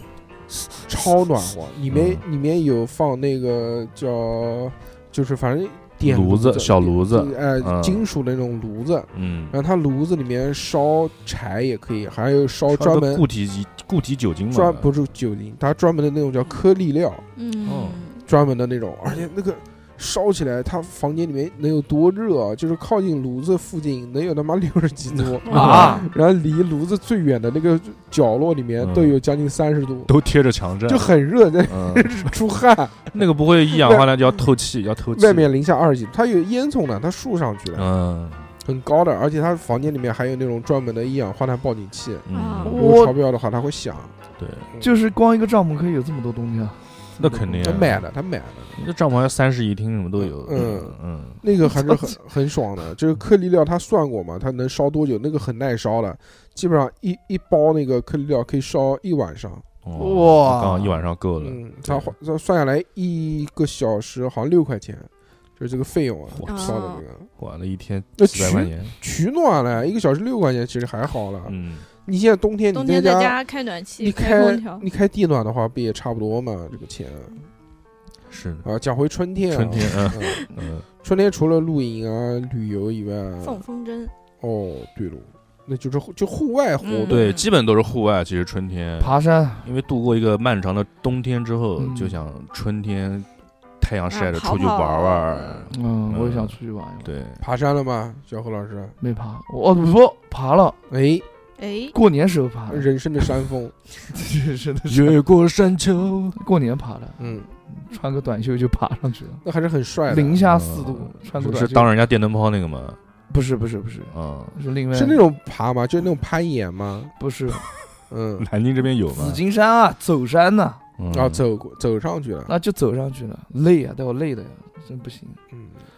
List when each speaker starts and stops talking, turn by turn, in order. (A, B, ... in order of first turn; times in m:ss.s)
0:00.6-0:13.2 A
0:01.9-0:02.2 B
0:06.0-0:08.0 B
0:09.1-0:09.6 B
0:12.7-0:14.9 B
0:14.5-0:17.2 A
0:17.4-0:18.2 C
0:17.6-0:18.0 B
0:18.2-0:30.1 A
0:25.2-0:26.0 B
0:25.5-0:26.1 C
0:25.5-0:26.1 D
0:28.8-0:29.2 B
0:30.1-0:31.1 B
0:30.8-0:33.1 A
0:31.6-0:32.2 B
0:33.1-0:35.5 B
0:33.8-0:34.1 A
0:35.1-0:37.9 A
0:37.7-0:38.5 B
0:38.6-0:44.1 A
0:42.3-0:42.8 B
0:42.3-0:42.8 C
0:42.7-0:43.1 D
0:44.4-0:44.6 B
0:44.8-0:47.5 D
0:47.2-0:48.0 B
0:47.6-0:48.8 A
0:48.8-0:51.4 B
0:50.2-0:59.6 A
0:59.8-1:02.1 B
0:59.9-1:01.0 D
1:01.4-1:07.3 A
1:06.3-1:06.8 B
1:06.5-1:07.0 C
1:07.4-1:08.9 B
1:08.2-1:13.3 A
1:11.4-1:11.8 B
1:12.7-1:14.8 C
1:14.0-1:17.5 A
1:18.3-1:18.6 B
1:18.6-1:20.4 A
1:19.5-1:20.8 B
1:21.0-1:23.6 A
1:23.4-1:24.1 C
1:24.4-1:27.3 A
1:26.8-1:27.5 C
1:27.1-1:33.3 B
1:29.0-1:29.7 D
1:31.8-1:32.2 D
1:33.8-1:37.4 B
1:34.1-1:35.7 C
1:35.7-1:37.1 D
1:37.4-1:39.0 A
1:39.0-1:40.8 D
1:40.9-1:41.2 A
1:41.6-1:41.9 C
1:41.9-1:42.9 D
1:42.7-1:43.7 A
1:44.1-1:45.2 D
1:44.9-1:46.4 B
1:46.4-1:49.4 D
1:47.2-1:47.5 A
1:49.4-1:50.4 A
1:50.1-1:51.9 D
1:50.4-1:53.0 B
1:53.3-1:55.2 D
1:54.1-1:54.5 B
1:54.9-1:57.1 A
1:57.2-1:57.6 D
1:58.1-1:58.5 A
1:58.4-1:59.4 B
1:59.1-2:00.8 D
2:01.0-2:01.4 B
2:01.1-2:02.5 A
2:02.5-2:05.4 D